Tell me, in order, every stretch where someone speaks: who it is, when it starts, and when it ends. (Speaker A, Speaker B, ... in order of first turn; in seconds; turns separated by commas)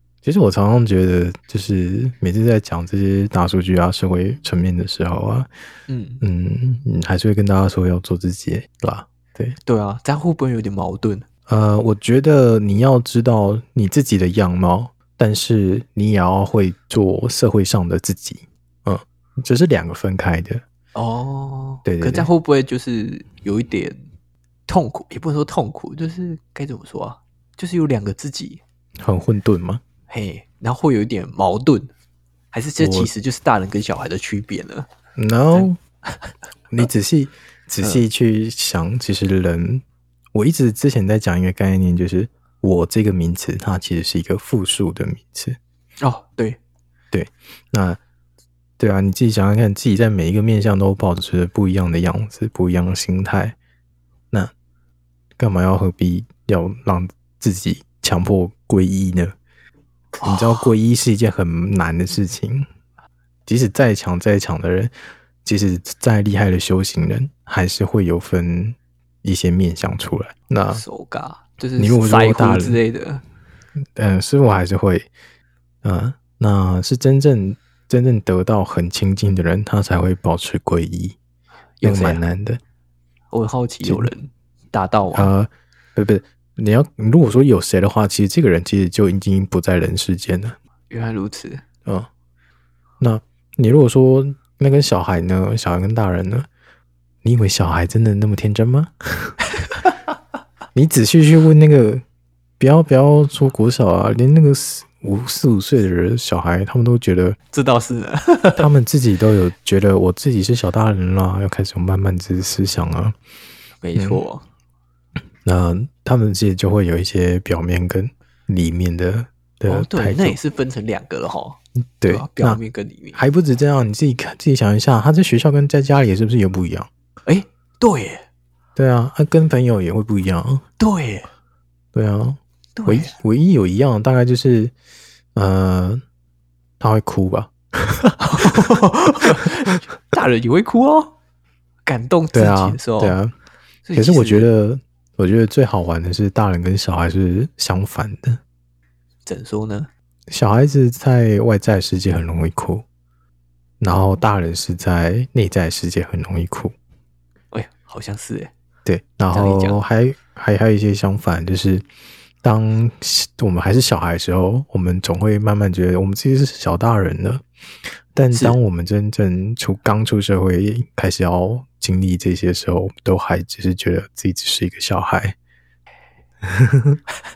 Speaker A: 0.2-5.5, Speaker B: 5.9-6.2, Speaker A: 6.2-9.6, Speaker B: 9.7-11.3, Speaker A: 11.5-20.6, Speaker B: 20.9-24.0, Speaker A: 21.9-22.3, Speaker B: 24.7-28.6, Speaker A: 29.0-29.8, Speaker B: 30.1-31.9, Speaker B: 32.5-34.9, Speaker A: 32.8-33.1, Speaker A: 35.2-35.8, Speaker A: 36.7-45.6, Speaker B: 46.0-46.6, Speaker A: 47.1-48.0, Speaker A: 48.8-53.6, Speaker A: 55.4-59.3, Speaker A: 60.2-62.7, Speaker A: 63.5-64.9, Speaker A: 65.4-70.8, Speaker B: 70.7-73.2, Speaker A: 71.8-72.8, Speaker A: 74.0-75.1, Speaker A: 75.8-81.2, Speaker B: 81.8-82.2, Speaker A: 81.8-82.6, Speaker B: 83.3-85.3, Speaker A: 83.8-84.1, Speaker A: 85.1-90.6, Speaker B: 90.9-91.6, Speaker A: 93.0-96.5, Speaker A: 97.2-99.4, Speaker A: 100.7-102.0, Speaker A: 102.6-107.4, Speaker B: 107.5-108.7, Speaker A: 108.6-113.2, Speaker B: 113.8-114.4, Speaker A: 114.0-114.2, Speaker A: 115.4-120.4, Speaker B: 119.7-123.2, Speaker A: 122.0-122.6, Speaker A: 123.1-126.9, Speaker B: 127.3-128.2, Speaker A: 128.8-130.6, Speaker B: 130.8-131.3, Speaker A: 131.9-134.7, Speaker B: 132.8-133.2, Speaker A: 135.3-136.0, Speaker A: 136.8-138.6, Speaker B: 138.2-141.1, Speaker B: 141.9-143.2, Speaker A: 142.3-143.3, Speaker B: 143.8-144.5, Speaker A: 143.9-148.4, Speaker B: 149.3-149.9, Speaker A: 150.3-152.8, Speaker A: 153.8-156.7, Speaker B: 157.5-158.5, Speaker A: 158.8-161.8, Speaker B: 159.3-159.8, Speaker A: 162.4-167.4, Speaker A: 168.1-175.4, Speaker B: 168.3-168.6, Speaker A: 176.4-177.0